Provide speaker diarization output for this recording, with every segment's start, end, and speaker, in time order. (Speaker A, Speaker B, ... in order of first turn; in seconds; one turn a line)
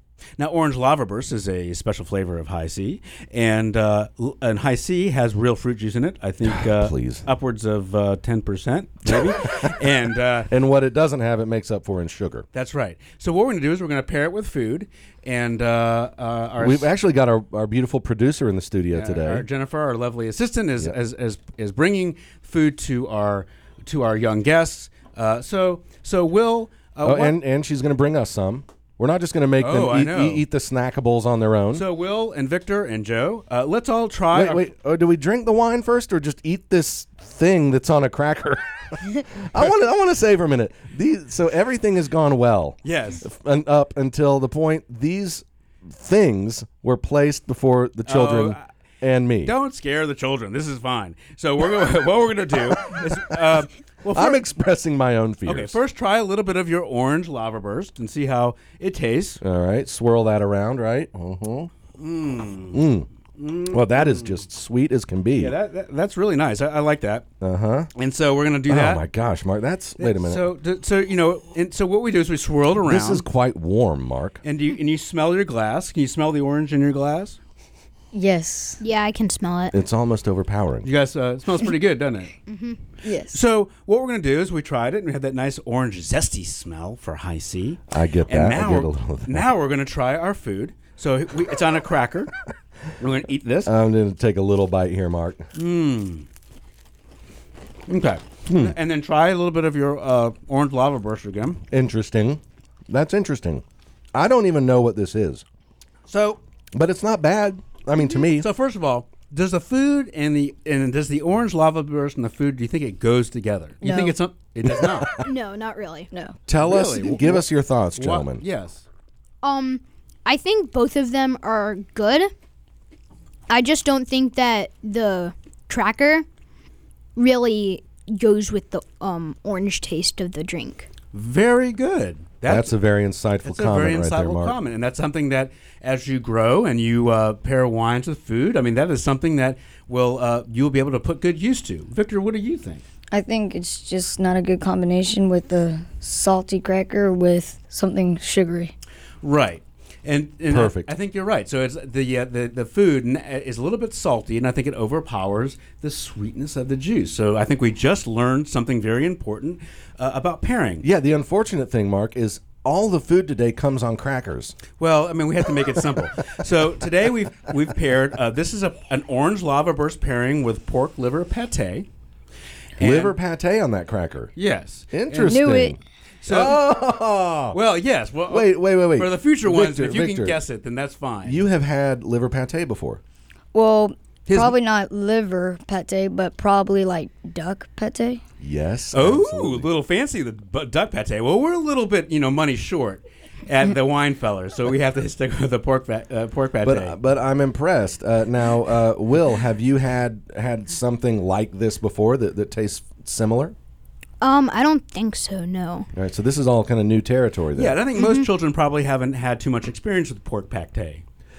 Speaker A: 0.4-10.5
Speaker B: 6.5-7.2
Speaker B: 9.1-9.7
Speaker B: 10.5-12.4
Speaker A: 12.5-16.9
Speaker B: 16.6-19.4
Speaker A: 18.9-27.4
Speaker B: 27.0-31.9
Speaker A: 29.6-30.4
Speaker A: 31.7-34.6
Speaker B: 34.3-49.5
Speaker A: 42.8-43.3
Speaker A: 48.0-48.7
Speaker A: 49.4-54.4
Speaker B: 54.1-55.8
Speaker A: 55.5-59.4
Speaker B: 59.4-61.7
Speaker A: 62.0-62.9
Speaker B: 62.7-63.1
Speaker A: 63.4-64.4
Speaker B: 63.7-65.5
Speaker A: 65.4-67.3
Speaker B: 67.4-67.9
Speaker A: 67.9-69.0
Speaker B: 68.7-70.4
Speaker A: 70.0-73.2
Speaker B: 72.8-74.4
Speaker A: 74.4-77.4
Speaker C: 78.1-78.8
Speaker D: 78.8-79.7
Speaker B: 79.7-80.9
Speaker A: 80.8-82.3
Speaker D: 82.5-82.8
Speaker C: 83.0-83.4
Speaker A: 83.3-92.3
Speaker B: 87.9-89.5
Speaker A: 93.0-93.7
Speaker B: 93.7-95.4
Speaker A: 95.5-96.2
Speaker A: 97.9-101.6
Speaker B: 101.7-103.6
Speaker B: 104.1-105.4
Speaker A: 106.1-106.4
Speaker B: 106.7-108.5
Speaker A: 108.4-115.1
Speaker C: 113.8-114.2
Speaker B: 114.7-115.2
Speaker D: 115.2-116.1
Speaker C: 116.1-116.4
Speaker B: 116.5-118.4
Speaker A: 116.6-117.4
Speaker A: 118.0-118.8
Speaker D: 119.4-122.3
Speaker D: 123.5-126.2
Speaker D: 127.2-130.9
Speaker A: 131.1-132.7
Speaker B: 132.4-134.6
Speaker A: 133.4-142.8
Speaker C: 143.1-148.7
Speaker A: 149.2-160.8
Speaker B: 150.5-150.9
Speaker B: 160.8-164.6
Speaker A: 164.8-171.9
Speaker A: 172.8-173.2
Speaker B: 172.8-174.3
Speaker A: 174.4-175.6
Speaker B: 174.9-177.6
Speaker C: 175.3-175.8
Speaker A: 176.2-176.6
Speaker A: 177.5-181.4
Speaker B: 178.3-180.4
Speaker B: 181.2-183.0
Speaker C: 183.5-188.2
Speaker A: 184.3-184.5
Speaker B: 188.4-189.7
Speaker A: 188.9-197.0
Speaker B: 196.6-203.5
Speaker D: 204.2-205.9
Speaker B: 205.9-207.8
Speaker A: 207.5-211.0
Speaker D: 207.9-208.2